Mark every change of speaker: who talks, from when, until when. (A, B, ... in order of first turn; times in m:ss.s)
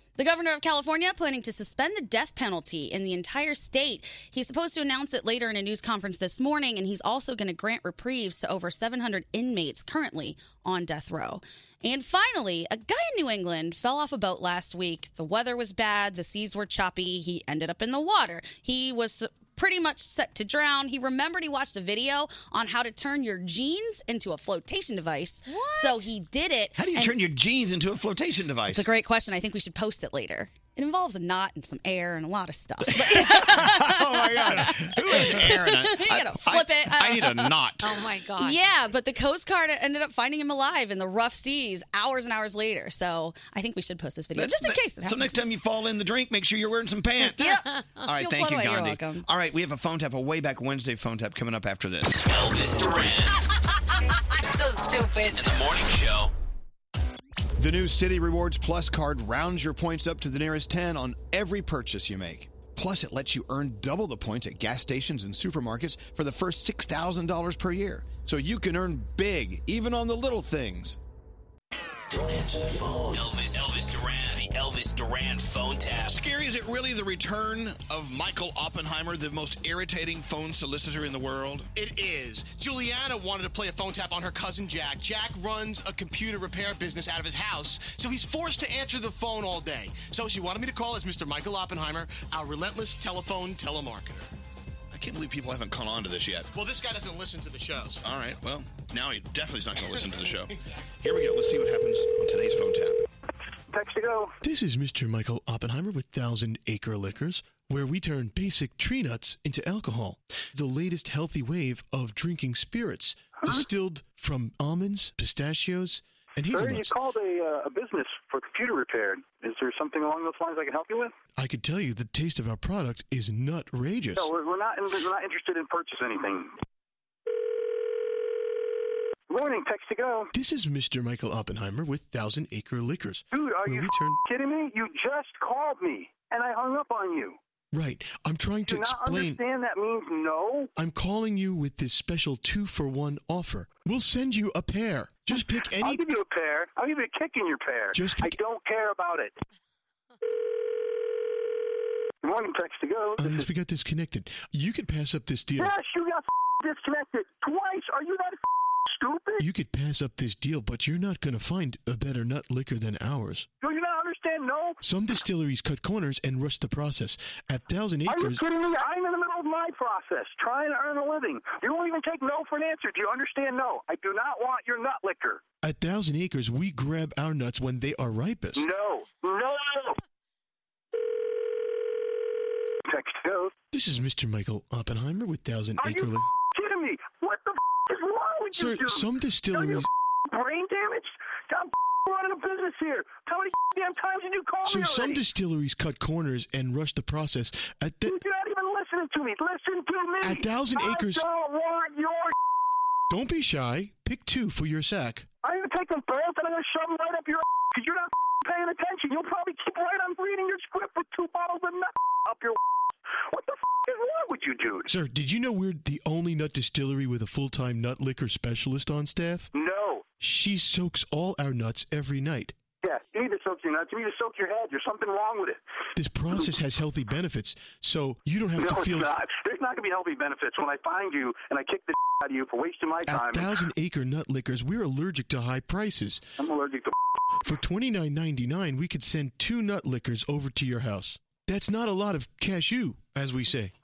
0:00.2-0:27.2 A
0:25.5-0:26.1 B
0:26.8-0:28.9 C
0:28.7-0:37.6 A
0:33.0-0:38.0 C
0:37.8-0:38.7 B
0:38.4-0:45.4 A
0:44.4-0:47.5 C
0:47.3-0:49.3 A
0:48.0-0:53.0 C
0:52.2-0:53.3 D
0:54.4-0:55.5 B
0:55.4-0:56.3 D
0:57.6-1:11.0 C
1:13.0-1:16.2 D
1:16.1-1:21.7 C
1:21.8-1:34.3 E
1:34.9-1:36.5 C
1:36.5-1:38.0 E
1:38.0-1:40.5 C
1:41.0-1:43.0 C
1:43.7-1:44.4 F
1:44.4-1:56.9 G
1:56.5-2:01.2 F
2:01.4-2:04.3 G
2:04.2-2:06.6 F
2:09.3-2:10.3 F
2:10.3-2:14.2 G
2:13.3-2:17.4 F
2:17.7-2:19.4 G
2:18.7-2:20.7 F
2:20.8-2:26.0 G
2:25.8-2:29.4 F
2:27.9-2:28.4 G
2:32.2-2:33.5 F
2:33.2-2:35.7 G
2:35.6-2:39.4 F
2:39.4-2:43.5 G
2:43.6-2:44.8 F
2:44.8-2:48.4 G
2:48.1-2:55.4 F
2:55.6-2:58.7 G
2:58.6-3:00.0 F
3:02.9-3:03.5 F
3:03.7-3:06.3 G
3:05.8-3:15.2 F
3:08.5-3:09.9 G
3:14.6-3:18.2 G
3:18.1-3:22.3 F
3:20.2-3:21.2 G
3:23.1-3:25.3 G
3:25.4-3:32.6 F
3:33.2-3:34.9 F
3:34.9-3:39.5 G
3:39.5-3:40.1 F
3:40.2-3:42.5 G
3:42.8-3:45.6 F
3:46.0-3:49.1 G
3:48.6-3:53.6 F
3:53.0-3:56.2 G
3:56.4-3:57.0 F
3:57.4-4:03.7 G